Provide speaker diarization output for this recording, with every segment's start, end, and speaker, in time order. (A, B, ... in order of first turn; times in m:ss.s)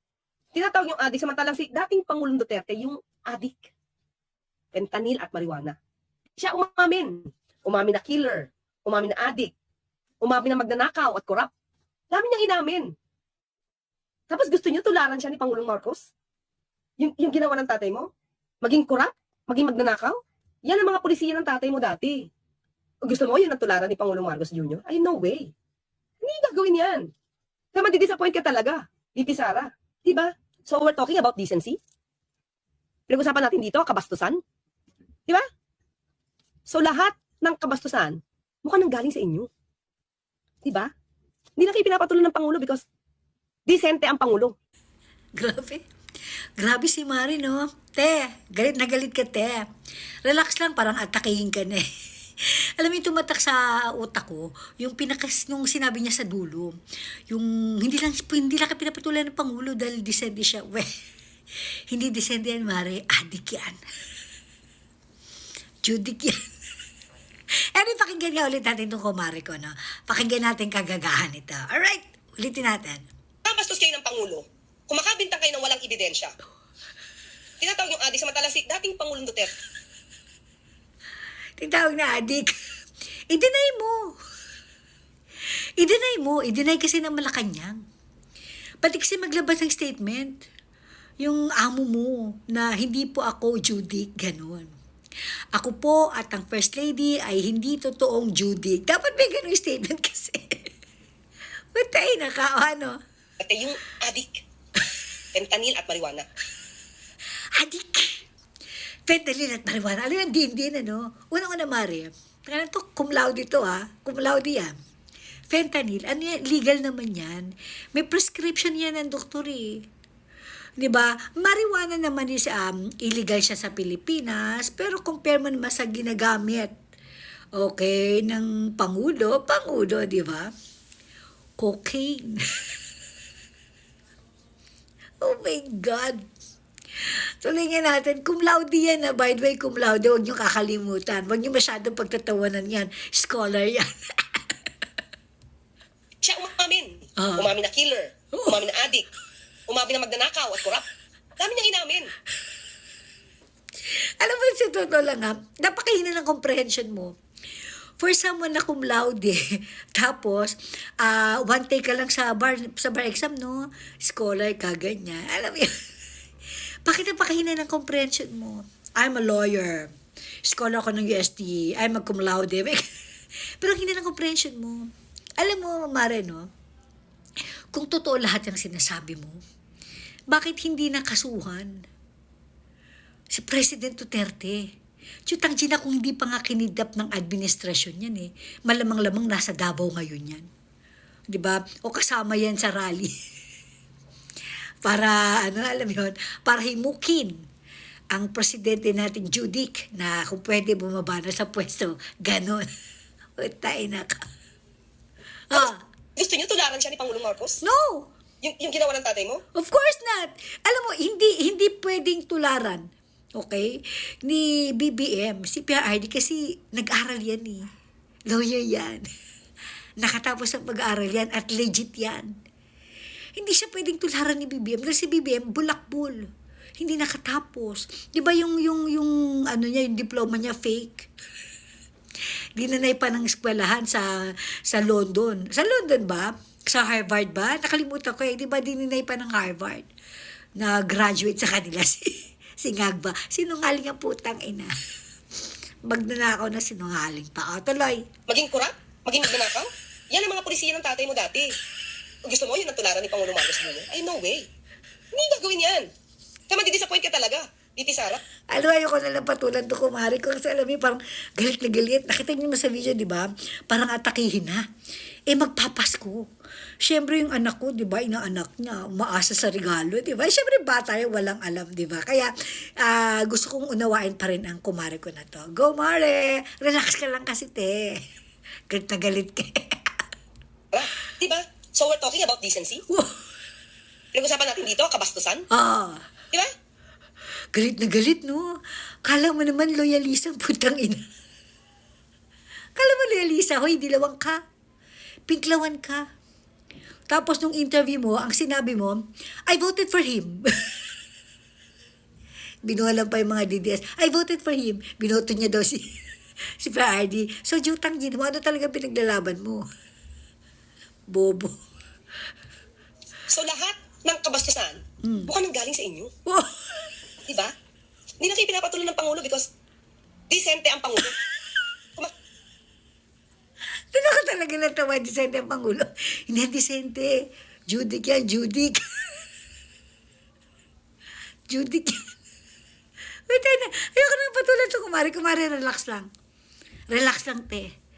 0:00.5-0:03.7 A
0:04.7-0:05.8 A
0:06.4-0:09.5 A
0:10.2-0:11.5 A
0:12.1-0:12.9 A
0:14.3-0:16.1 A
0:17.0-0:18.1 A
0:18.6-0:22.2 A
0:23.0-0:25.5 A
0:26.2-0:27.1 A
0:27.7-0:31.8 A
0:33.1-0:34.4 A
0:36.7-0:39.5 A
0:40.6-0:40.9 A
0:41.6-0:42.8 A
0:43.7-0:44.6 A
0:45.4-0:45.8 B
0:46.6-0:49.7 B
0:50.2-0:51.9 B
0:52.4-0:56.8 B
0:57.3-1:00.9 B
1:01.9-1:03.8 B
1:05.8-1:06.4 B
1:07.8-1:13.0 B
1:13.5-1:16.3 A
1:17.6-1:19.5 A
1:21.6-1:22.5 B
1:23.3-1:24.2 B
1:25.8-1:27.8 B
1:28.8-1:30.5 B
1:31.2-1:34.7 B
1:35.6-1:40.7 B
1:41.7-1:43.0 B
1:43.4-1:44.4 A
1:45.3-1:46.3 A
1:47.5-1:48.3 B
1:49.1-1:54.8 B
1:55.5-1:59.9 B
2:00.8-2:06.7 B
2:07.6-2:10.5 B
2:11.6-2:12.8 B
2:15.2-2:16.3 B
2:17.0-2:24.6 B
2:26.2-2:29.1 A
2:27.2-2:27.5 B
2:29.7-2:30.8 A
2:31.4-2:32.1 A
2:33.8-2:37.2 B
2:38.0-2:45.8 B
2:46.8-2:49.9 B
2:50.4-2:52.9 B
2:53.6-2:56.5 B
2:57.7-2:59.4 B
3:00.3-3:01.8 B
3:03.3-3:04.7 B
3:05.3-3:10.5 B
3:11.3-3:13.2 B
3:14.8-3:17.4 B
3:18.1-3:22.7 B
3:23.4-3:24.2 B
3:25.5-3:25.8 B
3:25.5-3:27.6 A
3:27.6-3:28.1 B
3:28.4-3:29.4 A
3:29.6-3:37.6 B
3:38.3-3:39.1 B
3:40.0-3:42.3 B
3:43.4-3:51.1 B
3:52.6-3:59.9 B
4:00.6-4:04.8 B
4:05.8-4:08.0 B
4:08.3-4:11.5 A
4:12.3-4:14.4 A
4:15.1-4:15.9 A
4:16.5-4:18.2 A
4:18.5-4:24.6 B
4:25.3-4:26.2 B
4:26.8-4:38.0 B
4:38.7-4:40.0 B
4:40.7-4:42.8 A
4:42.9-4:43.2 B
4:44.1-4:45.4 A
4:45.5-4:46.0 B
4:47.5-4:51.1 B
4:52.8-4:54.4 B
4:55.3-4:56.1 B
4:57.1-5:00.9 B
5:02.6-5:06.0 B
5:06.6-5:09.6 B
5:11.1-5:11.6 B
5:13.3-5:16.1 A
5:15.0-5:15.3 B
5:16.3-5:16.9 B
5:17.3-5:17.5 A
5:18.2-5:19.5 A
5:20.3-5:21.2 A
5:23.9-5:29.3 B
5:31.5-5:32.1 B
5:33.3-5:36.1 B
5:36.9-5:37.7 B